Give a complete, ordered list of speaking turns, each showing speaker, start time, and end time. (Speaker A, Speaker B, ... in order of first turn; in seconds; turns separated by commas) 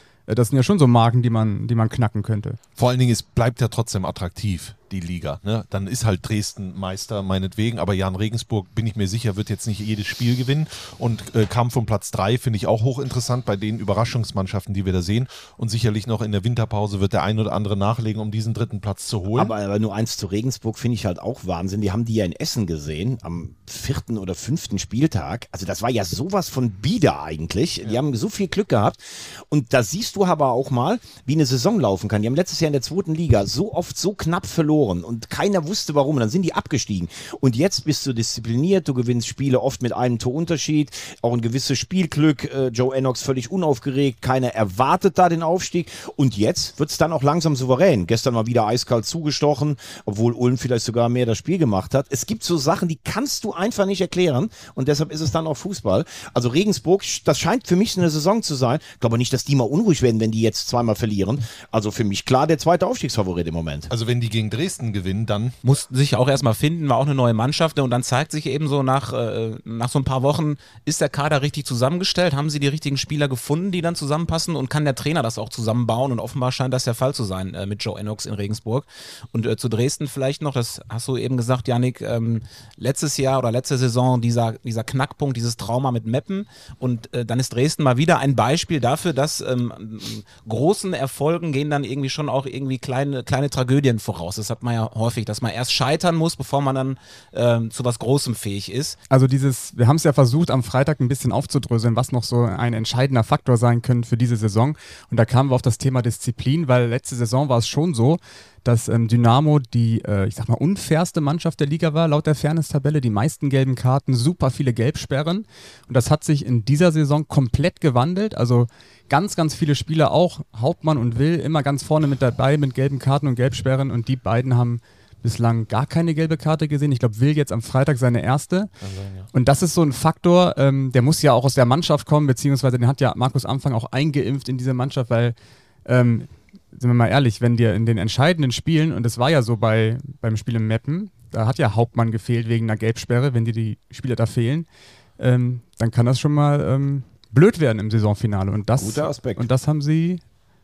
Speaker A: 0.3-2.6, Speaker B: 2.8-19.5, Speaker C: 19.3-63.9, Speaker B: 63.9-65.5, Speaker D: 65.6-99.0, Speaker A: 99.1-128.7, Speaker B: 128.8-129.3, Speaker A: 129.3-144.7, Speaker A: 145.2-150.2, Speaker C: 148.8-149.5